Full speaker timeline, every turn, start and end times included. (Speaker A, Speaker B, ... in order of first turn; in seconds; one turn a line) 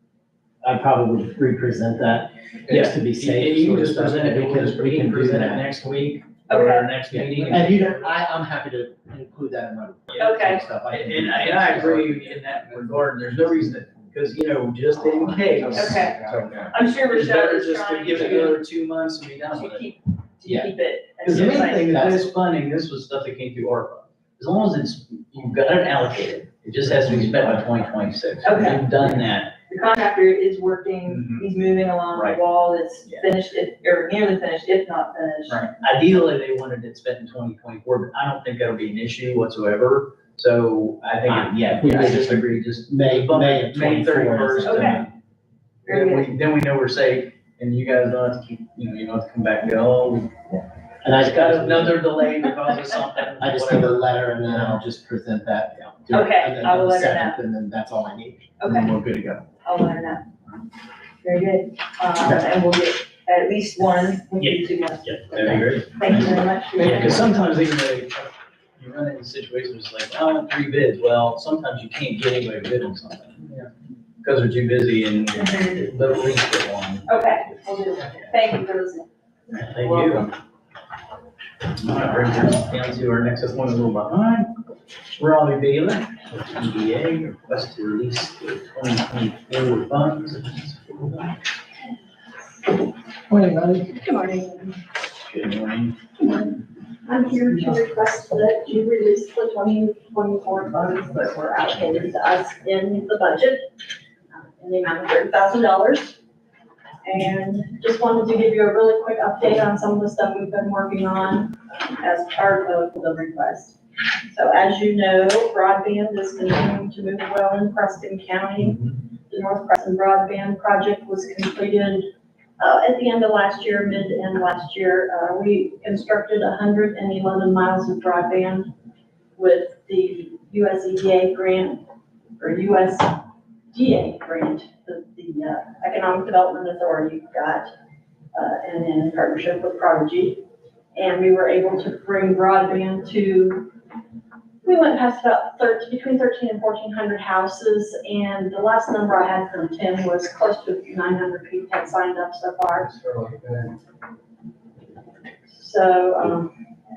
Speaker A: 0.6-5.7
Speaker B: 2.7-8.2
Speaker C: 6.5-6.9
Speaker A: 7.1-12.2
Speaker B: 10.1-19.9
Speaker C: 10.2-10.7
Speaker D: 11.6-13.2
Speaker D: 15.2-16.7
Speaker C: 15.7-16.2
Speaker C: 16.7-18.6
Speaker C: 19.5-22.1
Speaker A: 20.4-20.7
Speaker B: 21.2-29.6
Speaker A: 21.3-22.3
Speaker A: 26.8-27.6
Speaker C: 28.4-35.7
Speaker B: 31.1-31.4
Speaker B: 32.1-32.4
Speaker B: 35.7-45.1
Speaker A: 41.2-45.1
Speaker C: 44.6-45.0
Speaker C: 45.9-46.3
Speaker B: 45.9-50.4
Speaker A: 51.0-52.1
Speaker B: 51.1-54.8
Speaker A: 53.4-59.4
Speaker C: 56.1-57.4
Speaker C: 58.6-58.9
Speaker C: 59.6-60.2
Speaker C: 61.2-67.4
Speaker B: 64.4-73.7
Speaker B: 74.2-77.6
Speaker C: 77.0-80.3
Speaker B: 79.5-80.3
Speaker B: 81.8-84.5
Speaker B: 85.2-91.3
Speaker A: 93.3-93.9
Speaker E: 94.0-94.8
Speaker B: 95.3-95.9
Speaker E: 97.0-103.6
Speaker E: 104.3-106.2
Speaker E: 107.0-113.8
Speaker E: 114.3-122.1
Speaker E: 122.6-128.7
Speaker E: 129.3-131.8
Speaker E: 132.4-137.7
Speaker E: 138.3-140.4
Speaker E: 140.9-143.7
Speaker E: 144.6-152.9
Speaker D: 152.8-153.7
Speaker E: 155.5-156.5